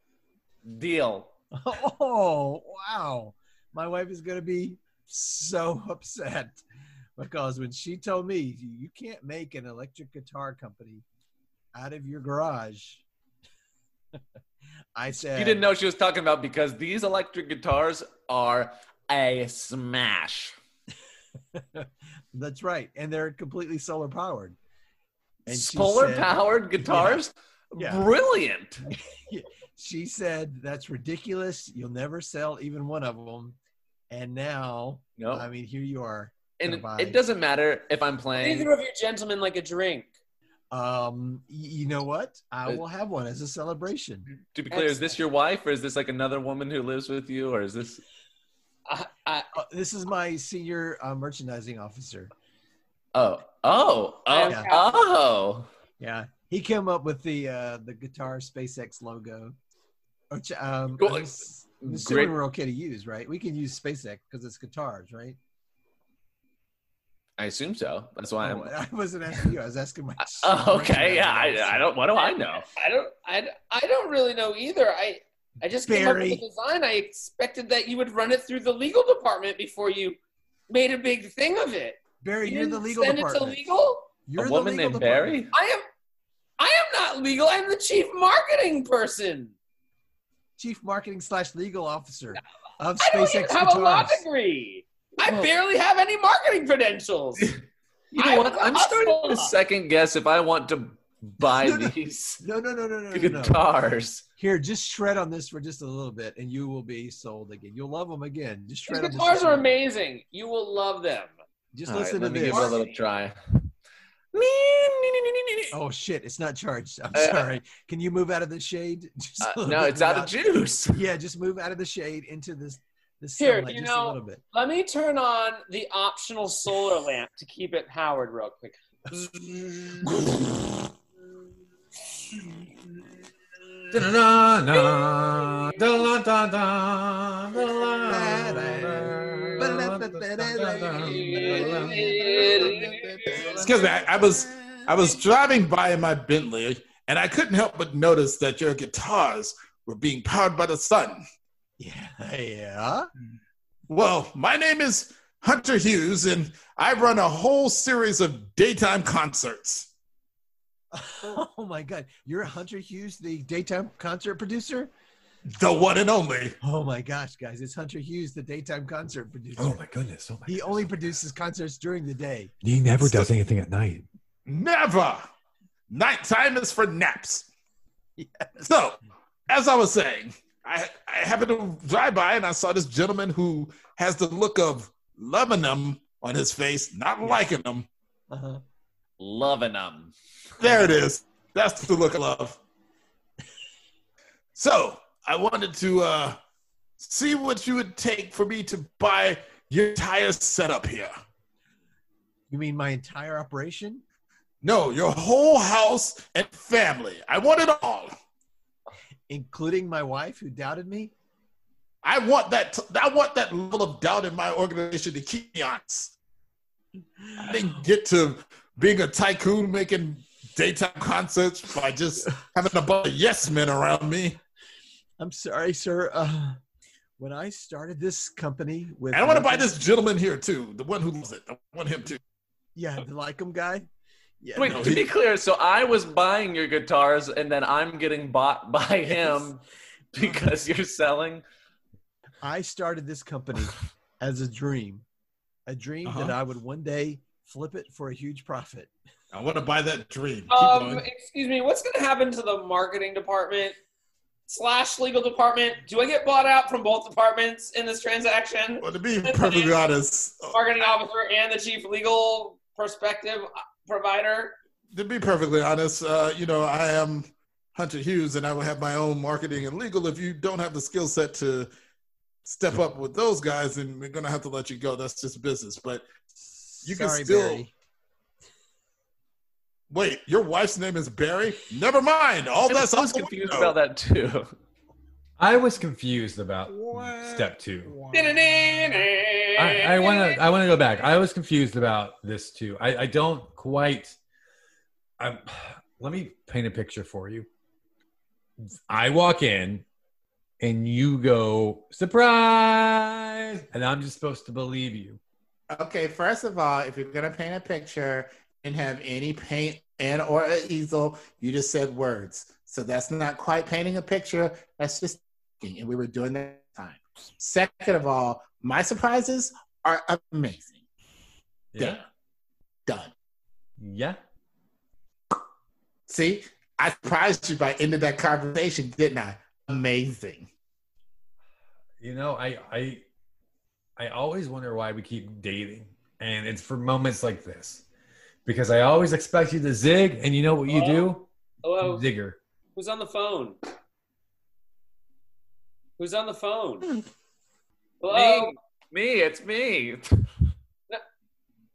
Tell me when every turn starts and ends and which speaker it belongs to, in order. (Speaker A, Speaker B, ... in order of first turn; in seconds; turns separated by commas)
Speaker A: 0.6-1.3, Speaker B: 1.5-6.6, Speaker B: 7.2-11.0, Speaker B: 11.7-13.0, Speaker B: 14.9-15.7, Speaker A: 15.3-20.5, Speaker B: 21.5-24.6, Speaker B: 25.4-27.2, Speaker A: 25.5-28.9, Speaker B: 27.8-28.1, Speaker B: 28.9-33.6, Speaker B: 34.1-37.2, Speaker A: 35.2-35.5, Speaker A: 36.6-38.7, Speaker C: 38.4-40.1, Speaker B: 40.7-44.2, Speaker A: 44.5-48.0, Speaker C: 44.7-45.1, Speaker C: 48.9-49.5, Speaker B: 49.5-52.3, Speaker A: 53.1-55.7, Speaker C: 54.3-54.8, Speaker B: 54.4-54.7, Speaker B: 56.0-59.5, Speaker B: 60.3-65.4, Speaker A: 61.0-62.4, Speaker A: 67.4-68.7, Speaker B: 68.4-71.9, Speaker A: 70.3-72.7, Speaker C: 72.2-80.2, Speaker B: 75.8-76.4, Speaker C: 80.7-84.1, Speaker B: 82.2-83.7, Speaker B: 84.2-85.5, Speaker A: 84.4-85.5, Speaker C: 85.5-85.8, Speaker C: 86.6-89.5, Speaker B: 90.6-94.2, Speaker C: 93.0-97.5, Speaker A: 98.1-102.4, Speaker C: 98.2-99.5, Speaker B: 101.4-103.6, Speaker A: 103.1-104.2, Speaker B: 104.4-109.7, Speaker C: 108.9-111.3, Speaker B: 111.7-112.8, Speaker A: 111.9-113.6, Speaker C: 112.5-113.0, Speaker A: 114.3-115.8, Speaker B: 115.7-124.4, Speaker A: 117.1-117.5, Speaker A: 119.4-121.0, Speaker C: 123.4-130.1, Speaker D: 133.9-142.2, Speaker C: 134.7-135.8, Speaker B: 138.0-144.7, Speaker C: 141.1-143.2, Speaker E: 143.4-151.2, Speaker B: 151.8-153.1, Speaker E: 153.9-159.9, Speaker B: 160.9-164.9, Speaker E: 165.6-166.6, Speaker B: 166.6-169.8, Speaker D: 169.6-170.9, Speaker B: 170.4-172.5, Speaker D: 172.6-174.0, Speaker E: 173.0-173.3, Speaker E: 174.5-175.2, Speaker E: 175.9-177.5, Speaker B: 178.2-178.7, Speaker E: 178.6-187.9, Speaker B: 188.3-188.6, Speaker A: 189.2-190.1, Speaker E: 190.6-192.6, Speaker B: 190.6-190.9, Speaker E: 194.6-196.4, Speaker E: 197.0-201.1, Speaker B: 202.5-204.0, Speaker E: 204.6-208.1, Speaker B: 209.3-211.1, Speaker E: 212.0-216.1, Speaker E: 217.4-224.4, Speaker B: 225.2-226.6, Speaker B: 227.2-229.7, Speaker E: 229.1-232.2, Speaker B: 232.7-233.8, Speaker B: 234.4-235.0, Speaker A: 234.6-239.6, Speaker E: 234.7-235.1, Speaker B: 239.0-239.5, Speaker A: 240.1-241.4, Speaker B: 240.2-240.5, Speaker B: 242.4-245.0, Speaker B: 245.7-248.9, Speaker E: 246.1-246.3, Speaker E: 249.3-251.1, Speaker C: 250.5-253.8, Speaker C: 254.5-259.7, Speaker E: 258.8-260.6, Speaker C: 260.5-264.6, Speaker E: 264.9-271.7, Speaker E: 272.4-276.1, Speaker B: 276.4-277.7, Speaker E: 276.8-277.6, Speaker E: 279.9-283.7, Speaker A: 282.6-284.5, Speaker D: 285.4-287.9, Speaker E: 286.8-287.4, Speaker E: 287.9-288.3, Speaker C: 288.1-290.4, Speaker D: 289.6-294.1, Speaker D: 295.2-297.5, Speaker D: 298.9-299.8, Speaker D: 300.6-305.2, Speaker E: 305.7-320.8, Speaker D: 321.7-322.0, Speaker E: 322.9-323.1, Speaker D: 323.8-324.2, Speaker E: 326.1-330.5, Speaker D: 332.0-333.0, Speaker D: 334.0-337.8, Speaker D: 338.4-341.3, Speaker C: 340.7-341.1, Speaker C: 341.6-342.0, Speaker D: 341.8-342.4, Speaker C: 342.7-343.6, Speaker C: 346.0-346.9, Speaker C: 348.0-348.5, Speaker A: 348.1-350.0